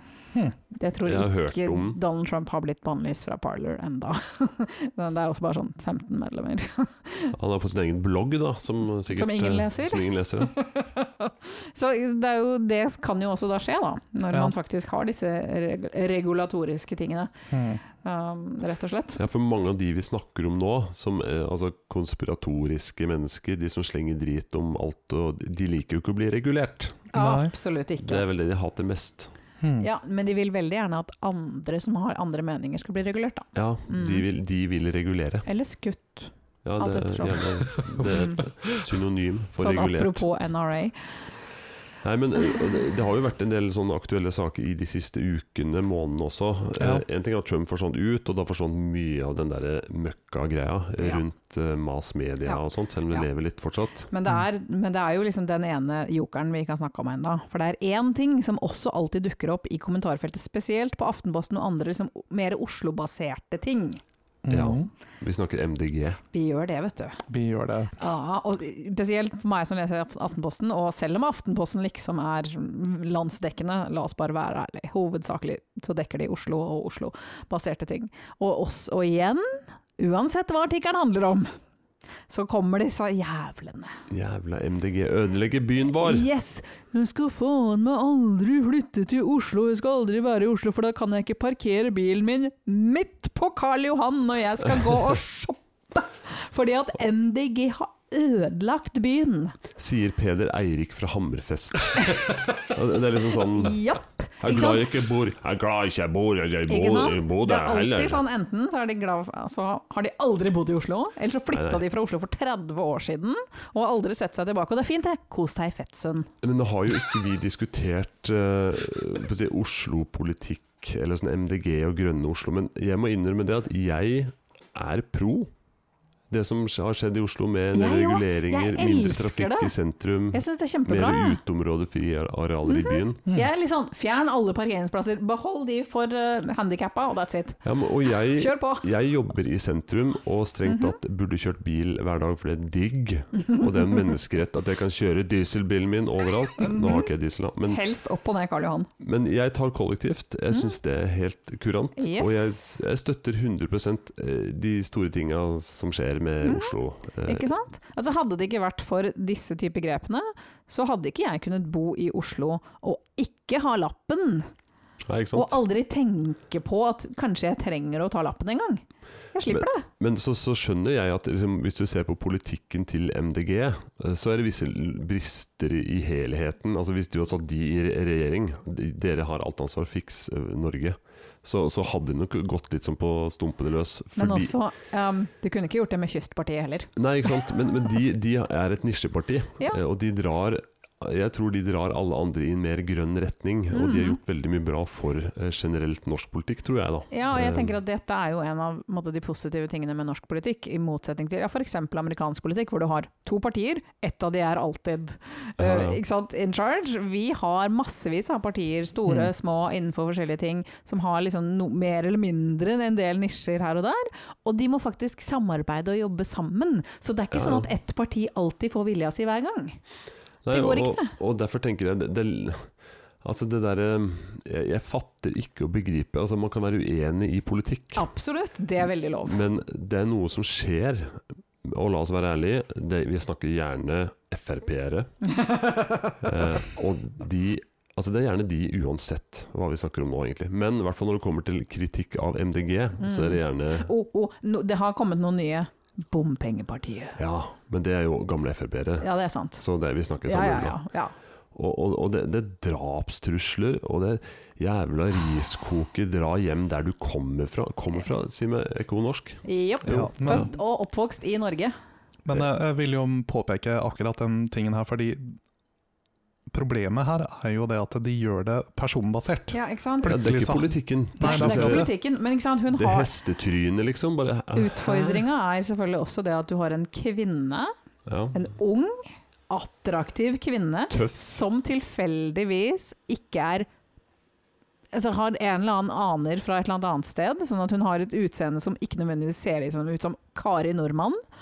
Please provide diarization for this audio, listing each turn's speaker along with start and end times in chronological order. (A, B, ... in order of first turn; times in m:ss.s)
0:00.8-0:07.4 A
0:01.0-0:02.0 B
0:07.4-0:10.5 B
0:09.1-0:17.3 A
0:17.5-0:17.8 C
0:17.9-0:19.2 A
0:19.2-0:27.1 B
0:27.1-0:28.2 A
0:27.2-0:27.5 C
0:28.0-0:29.3 B
0:29.6-0:29.9 C
0:29.8-0:34.2 A
0:33.6-0:35.5 B
0:35.5-0:38.4 A
0:36.6-0:40.2 B
0:39.6-0:41.2 A
0:42.0-0:54.1 B
0:46.8-0:47.0 C
0:52.5-0:53.3 A
0:54.1-1:04.0 A
1:04.4-1:04.9 C
1:04.5-1:06.2 B
1:06.3-1:07.2 A
1:07.3-1:08.0 C
1:08.0-1:21.5 A
1:22.3-1:24.0 A
1:24.1-1:26.3 B
1:26.0-1:39.6 A
1:39.8-1:43.8 B
1:42.0-1:42.3 A
1:43.5-1:44.9 A
1:44.4-1:48.2 B
1:46.7-1:56.3 A
1:51.5-1:51.8 B
1:56.4-2:05.5 B
2:06.3-2:13.2 B
2:07.7-2:09.7 A
2:10.3-2:11.4 A
2:12.7-2:17.6 A
2:17.6-2:27.8 B
2:18.3-2:18.9 A
2:20.6-2:21.0 A
2:26.6-2:27.1 A
2:27.7-2:28.9 A
2:29.0-2:37.5 B
2:30.5-2:30.8 A
2:32.0-2:32.6 A
2:36.4-2:44.5 A
2:45.1-2:45.6 B
2:45.3-2:49.9 A
2:49.5-3:04.5 B
3:04.2-3:06.9 A
3:07.0-3:17.8 B
3:13.7-3:14.2 A
3:17.1-3:39.8 A
3:25.6-3:26.0 B
3:37.3-3:37.7 B
3:40.4-3:42.7 B
3:40.5-3:41.1 A
3:43.2-3:48.1 B
3:48.0-3:49.4 A
3:49.2-3:55.2 B
3:55.3-3:56.2 A
3:56.2-4:03.9 B
4:03.0-4:07.2 A
4:07.2-4:09.1 B
4:09.0-4:09.6 A
4:09.6-4:10.8 B
4:10.2-4:11.1 A
4:11.6-4:20.5 B
4:19.4-4:21.7 A
4:19.9-4:20.5 C
4:22.3-4:25.4 C
4:26.5-4:31.9 C
4:29.5-4:30.2 A
4:30.0-4:31.9 B
4:31.2-4:33.1 A
4:32.7-4:35.0 B
4:34.6-4:37.7 A
4:38.1-4:38.4 B
4:38.3-4:43.7 A
4:40.9-4:41.2 B
4:44.9-4:51.2 A